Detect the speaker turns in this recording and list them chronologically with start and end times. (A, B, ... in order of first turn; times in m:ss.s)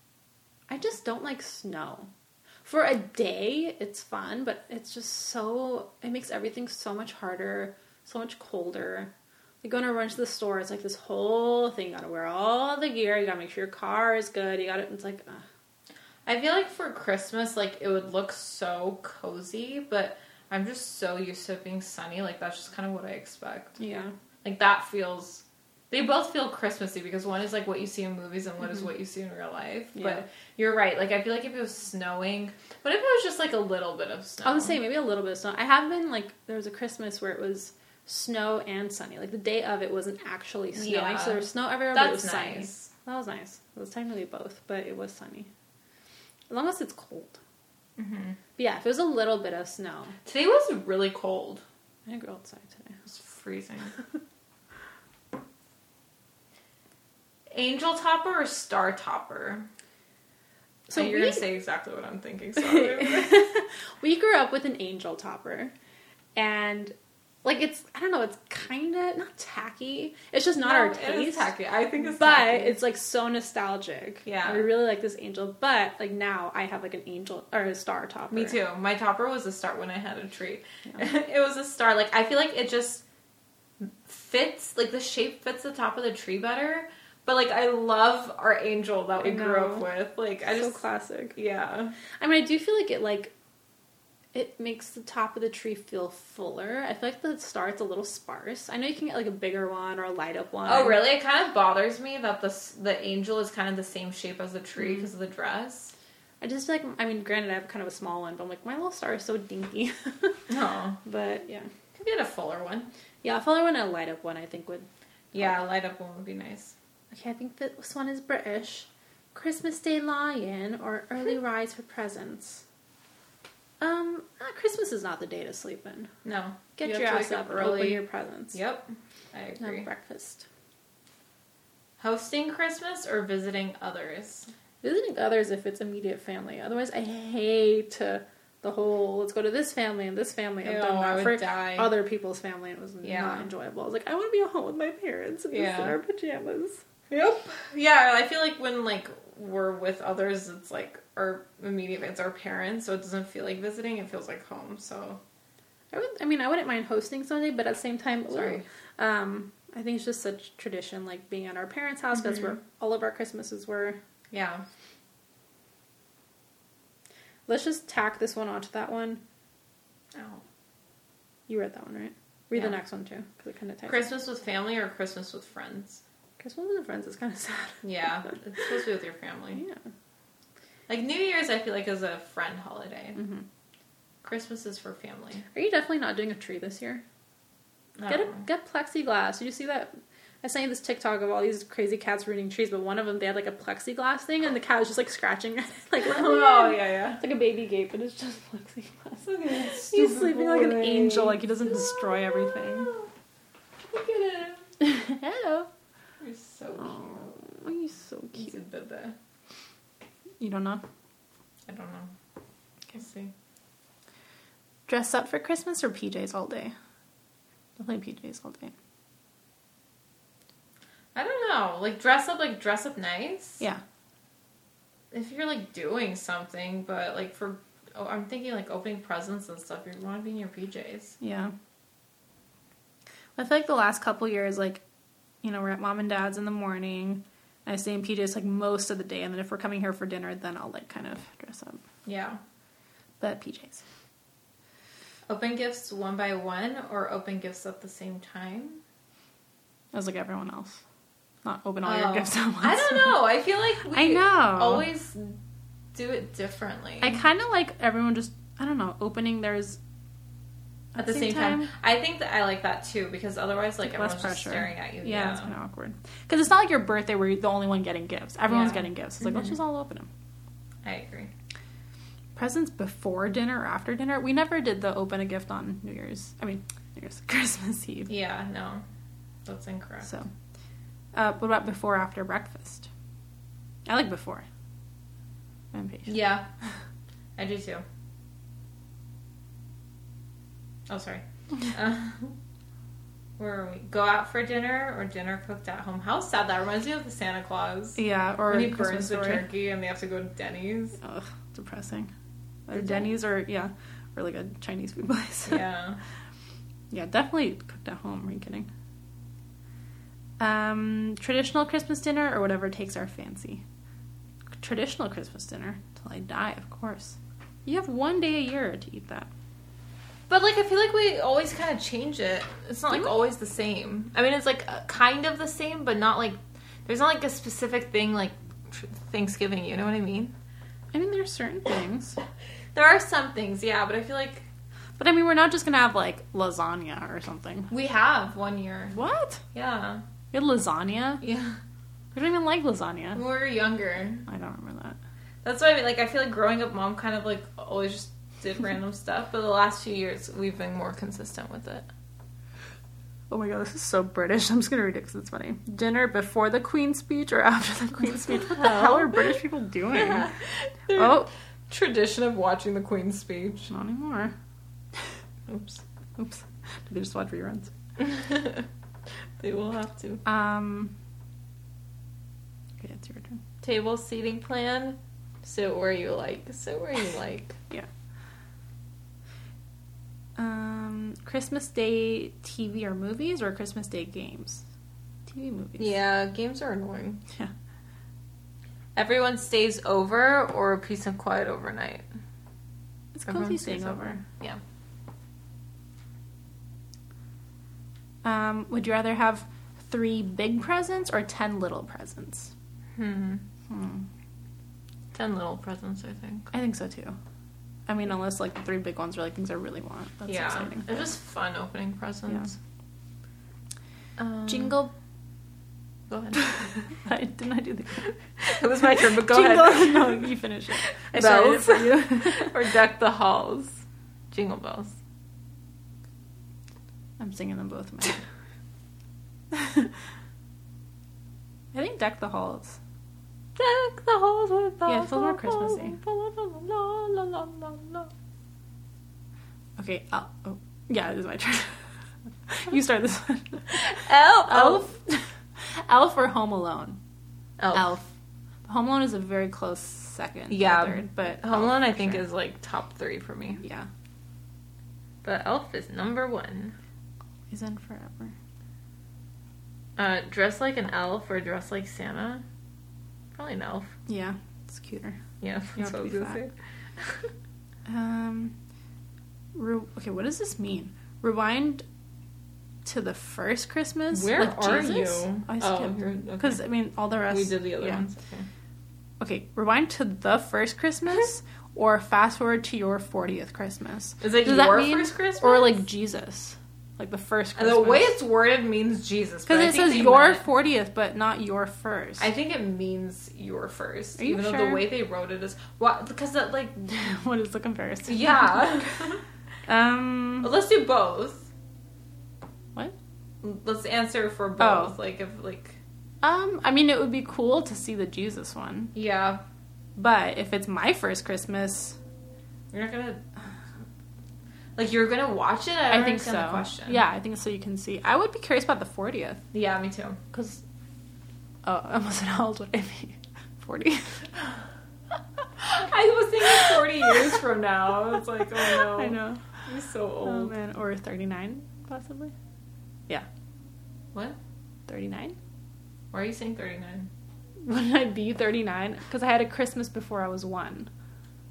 0:00.7-0:02.1 A
0:02.6-0:09.1 A
0:09.6-0:15.4 A
0:16.2-0:23.8 B
0:23.8-0:24.1 A
0:24.4-0:34.8 B
0:29.9-0:30.2 A
0:34.4-0:45.5 A
0:40.7-0:42.9 B
0:46.5-0:47.4 A
0:48.0-0:48.4 B
0:48.6-0:50.1 A
0:50.2-0:51.6 B
0:52.1-0:53.0 A
0:53.1-0:53.9 B
0:57.5-0:59.7 B
1:00.9-1:01.4 A
1:00.9-1:03.5 B
1:02.6-1:05.7 A
1:06.4-1:11.5 A
1:10.6-1:12.8 B
1:12.1-1:18.6 A
1:14.2-1:14.7 B
1:18.3-1:23.0 B
1:23.8-1:30.8 B
1:29.2-1:29.9 A
1:30.4-1:31.4 A
1:31.4-1:31.9 B
1:32.2-1:33.3 A
1:34.3-1:41.0 A
1:40.6-1:45.9 B
1:46.4-1:50.4 A
1:50.5-1:51.0 B
1:51.0-1:51.7 A
1:51.9-1:52.9 B
1:53.2-1:54.9 A
1:55.3-1:56.7 B
1:57.1-2:02.6 A
2:03.8-2:06.1 A
2:06.2-2:09.9 B
2:06.8-2:08.6 A
2:09.6-2:10.4 A
2:12.0-2:14.5 B
2:14.8-2:26.8 A
2:20.6-2:21.9 B
2:23.0-2:23.4 B
2:25.5-2:26.0 B
2:27.1-2:35.2 B
2:35.9-2:44.0 A
2:38.3-2:38.6 B
2:42.2-2:42.5 B
2:44.3-2:44.6 B
2:47.5-2:49.2 A
2:50.1-2:50.4 B
2:51.5-2:54.1 A
2:53.9-2:56.0 B
2:56.4-2:58.3 A
2:57.8-2:59.6 B
2:59.5-2:59.8 A
3:00.9-3:03.2 B
3:03.2-3:03.4 A
3:04.2-3:05.4 B
3:05.5-3:07.0 A
3:08.0-3:08.4 B
3:08.0-3:22.9 A
3:16.0-3:17.2 B
3:19.2-3:23.1 B
3:23.9-3:24.7 B
3:24.8-3:25.7 A
3:26.2-3:27.4 B
3:26.8-3:28.6 A
3:28.3-3:29.2 B
3:30.4-3:30.8 A
3:31.7-3:32.1 B
3:32.9-3:33.3 B
3:34.9-3:36.7 A
3:37.8-3:38.7 A
3:41.1-3:43.6 B
3:45.1-3:51.2 B
3:51.2-3:51.5 A
3:53.4-3:54.8 A
3:55.4-4:01.8 A
4:02.0-4:02.4 B
4:03.2-4:03.8 A
4:05.3-4:08.8 B
4:09.9-4:10.8 A
4:11.4-4:13.2 A
4:11.8-4:15.4 B
4:13.9-4:14.9 A
4:15.9-4:17.2 B
4:17.0-4:19.8 A
4:20.9-4:21.7 A
4:21.0-4:25.5 B
4:23.8-4:30.1 A
4:28.5-4:29.5 B
4:30.8-4:31.3 B
4:32.4-4:38.1 A
4:38.1-4:38.8 B
4:39.4-4:40.1 B
4:41.1-4:42.9 A
4:43.8-4:44.4 A
4:45.7-4:46.2 A
4:46.1-4:46.5 B
4:47.4-4:47.8 B
4:50.9-4:52.3 B
4:53.4-5:01.0 B
4:58.0-4:59.5 A
5:01.0-5:02.1 A
5:02.7-5:05.6 A
5:02.7-5:03.1 B
5:05.4-5:06.0 B
5:06.9-5:08.7 A
5:10.4-5:13.6 A
5:14.6-5:19.3 A
5:20.3-5:30.3 B
5:30.9-5:32.2 A
5:32.7-5:34.4 B
5:35.0-5:37.7 A
5:37.7-5:38.9 B
5:38.9-5:39.4 A
5:39.5-5:40.0 B
5:40.3-5:41.2 A
5:41.2-5:41.6 B
5:42.1-5:43.2 A
5:43.1-5:44.2 B
5:44.3-5:45.0 A
5:45.4-5:51.9 B
5:53.3-6:00.3 A
5:58.4-5:59.3 B
5:59.9-6:03.7 B
6:00.9-6:01.3 A
6:03.7-6:04.3 A
6:05.5-6:05.8 B
6:06.2-6:07.7 A
6:08.0-6:08.7 B
6:09.4-6:10.2 B
6:10.2-6:10.9 A
6:12.8-6:13.4 A
6:13.6-6:17.6 B
6:20.4-6:24.6 A
6:25.3-6:26.0 A
6:25.8-6:27.2 B
6:29.0-6:32.0 B
6:33.1-6:34.2 A
6:33.3-6:34.6 B
6:38.2-6:42.5 A
6:42.9-6:43.4 B
6:43.7-6:44.0 A
6:45.1-6:46.5 B
6:46.5-6:47.2 A
6:47.9-6:51.1 A
6:50.3-6:52.5 B
6:54.2-6:54.8 B
6:54.5-6:54.9 A
6:56.1-6:56.6 B
6:56.4-6:58.1 A
6:58.4-7:00.3 B
6:58.8-7:02.6 A
7:01.1-7:04.9 B
7:07.2-7:08.2 A
7:09.5-7:09.9 A
7:11.7-7:12.8 A
7:13.6-7:18.1 B
7:14.8-7:16.0 A
7:19.8-7:21.8 A
7:22.5-7:27.0 A
7:23.7-7:24.9 B
7:27.6-7:27.9 B
7:27.7-7:28.1 A
7:28.7-7:32.2 A
7:30.5-7:33.6 B
7:33.6-7:33.9 A
7:35.2-7:36.8 B
7:37.5-7:38.3 A
7:40.0-7:42.4 B
7:43.3-7:43.9 B
7:44.1-7:45.2 A
7:45.4-7:47.3 B
7:45.8-7:46.4 A
7:47.8-7:48.5 A
7:49.5-7:51.8 A
7:52.8-7:58.0 A
7:54.1-7:56.6 B
7:57.3-7:58.5 B
7:59.2-8:08.1 A
8:04.2-8:05.8 B
8:07.6-8:10.4 B
8:09.5-8:12.3 A
8:12.2-8:16.8 B
8:14.2-8:14.9 A
8:16.9-8:18.9 A
8:18.1-8:19.2 B
8:19.7-8:20.5 A
8:20.4-8:21.5 B
8:23.4-8:25.8 B
8:24.6-8:24.9 A
8:26.2-8:28.9 A
8:28.9-8:29.4 B
8:30.0-8:32.0 A
8:32.7-8:33.2 B
8:34.8-8:37.0 B
8:35.9-8:39.4 A
8:39.5-8:40.2 B
8:40.3-8:40.6 A
8:41.6-8:44.2 A
8:45.6-8:50.5 B
8:46.5-8:47.2 A
8:48.6-8:49.4 A
8:50.2-8:52.3 A
8:54.9-8:55.4 A
8:56.1-8:57.1 B
8:57.6-9:00.9 A